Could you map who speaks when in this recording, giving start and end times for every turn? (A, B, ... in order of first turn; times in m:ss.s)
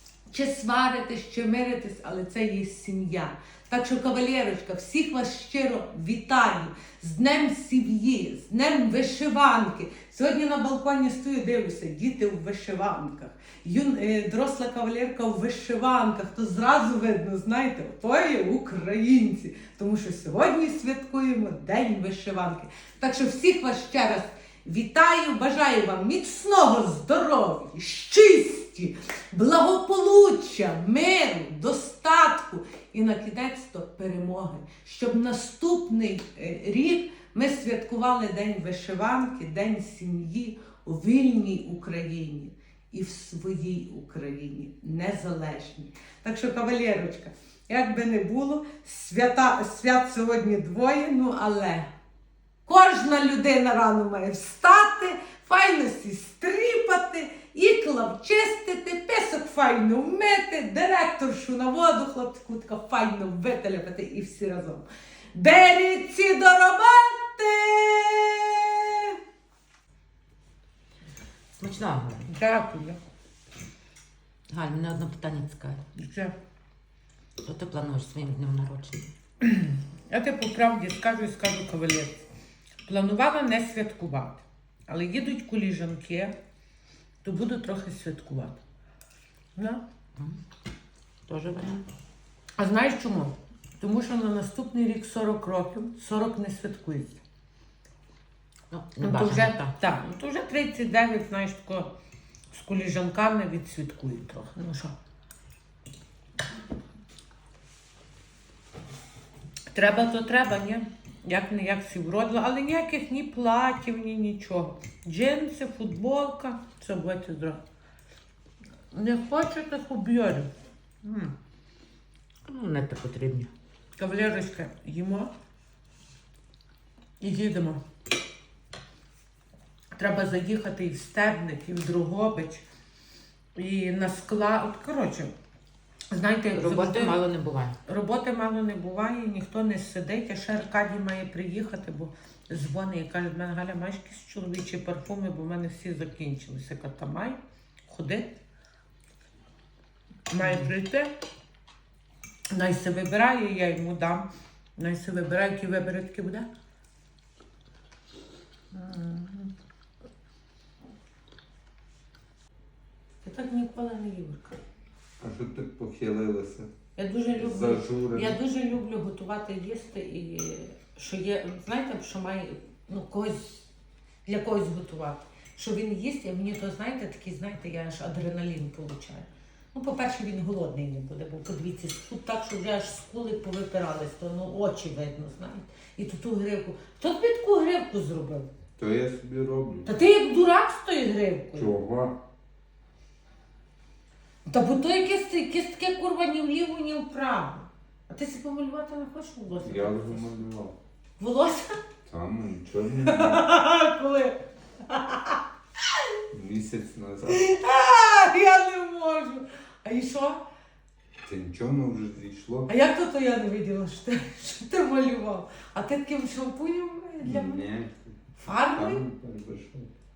0:00.3-0:51.9 A
0:52.7-1:09.2 A
1:11.5-1:12.3 B
1:12.3-1:13.0 A
1:14.5-1:15.8 B
1:16.0-1:16.3 A
1:17.4-1:19.1 B
1:19.4-1:22.3 A
1:22.8-1:26.3 A
1:27.2-1:28.6 A
1:29.6-1:29.8 A
1:31.3-1:31.8 B
1:32.6-1:37.2 A
1:38.7-1:39.7 B
1:39.0-1:41.9 A
1:42.5-1:45.0 A
1:49.7-1:57.6 A
1:58.9-2:00.5 A
2:01.0-2:01.3 A
2:02.5-2:03.5 B
2:04.0-2:05.3 A
2:07.2-2:07.8 A
2:10.0-2:12.6 A
2:13.6-2:15.3 A
2:16.1-2:17.2 A
2:16.6-2:17.8 B
2:17.8-2:28.4 A
2:30.3-2:31.1 A
2:32.5-2:36.5 A
2:38.7-2:39.5 A
2:43.2-2:44.6 A
2:45.2-2:46.7 C
2:47.0-2:53.7 A
2:47.3-2:48.4 C
2:54.2-3:08.5 A
3:08.8-3:09.9 C
3:09.9-3:11.7 A
3:11.5-3:12.2 C
3:14.5-3:20.3 A
3:19.6-3:20.8 C
3:21.2-3:21.8 A
3:22.1-3:23.5 C
3:23.1-3:25.4 A
3:26.3-3:27.4 C
3:27.3-3:30.4 A
3:31.2-3:32.7 C
3:32.7-3:37.7 A
3:37.2-3:39.9 C
3:38.4-3:39.0 A